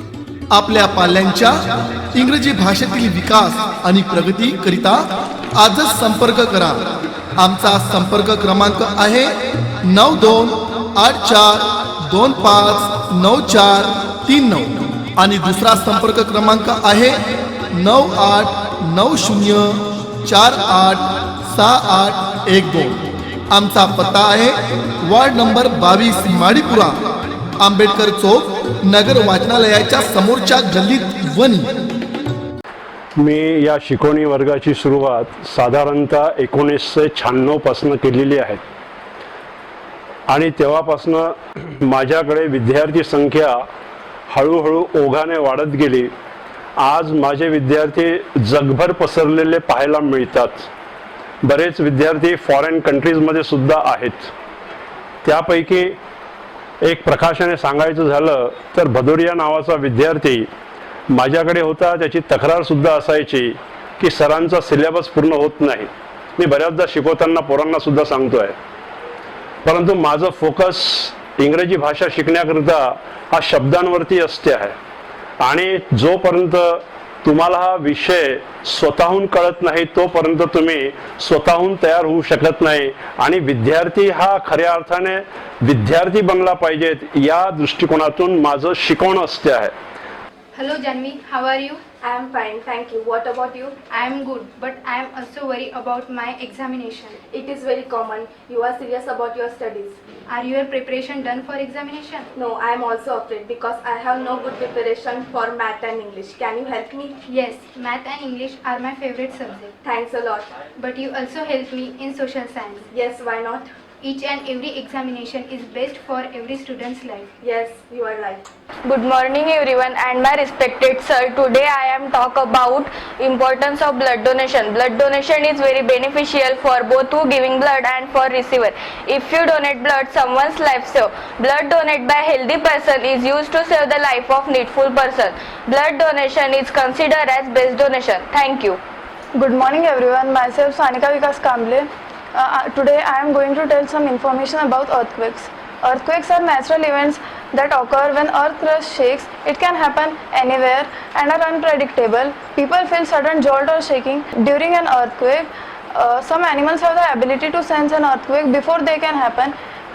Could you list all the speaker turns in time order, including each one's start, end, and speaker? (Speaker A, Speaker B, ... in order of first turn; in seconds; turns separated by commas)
Speaker A: 0.5-1.6, Speaker A: 2.1-23.0, Speaker A: 23.5-27.0, Speaker A: 27.6-31.7, Speaker B: 33.1-38.6, Speaker B: 40.3-43.6, Speaker B: 44.3-46.1, Speaker B: 46.8-50.7, Speaker B: 51.4-54.3, Speaker B: 55.2-56.0, Speaker B: 56.8-60.5, Speaker B: 61.1-68.6, Speaker B: 69.6-74.7, Speaker B: 75.4-89.7, Speaker C: 90.5-91.8, Speaker D: 92.0-93.8, Speaker C: 93.9-97.2, Speaker D: 97.3-100.0, Speaker C: 100.3-102.3, Speaker D: 102.3-107.2, Speaker C: 107.2-109.8, Speaker D: 109.8-110.5, Speaker C: 110.8-112.9, Speaker D: 112.9-113.7, Speaker C: 114.0-117.3, Speaker D: 117.4-118.4, Speaker E: 118.8-138.8, Speaker F: 139.4-159.5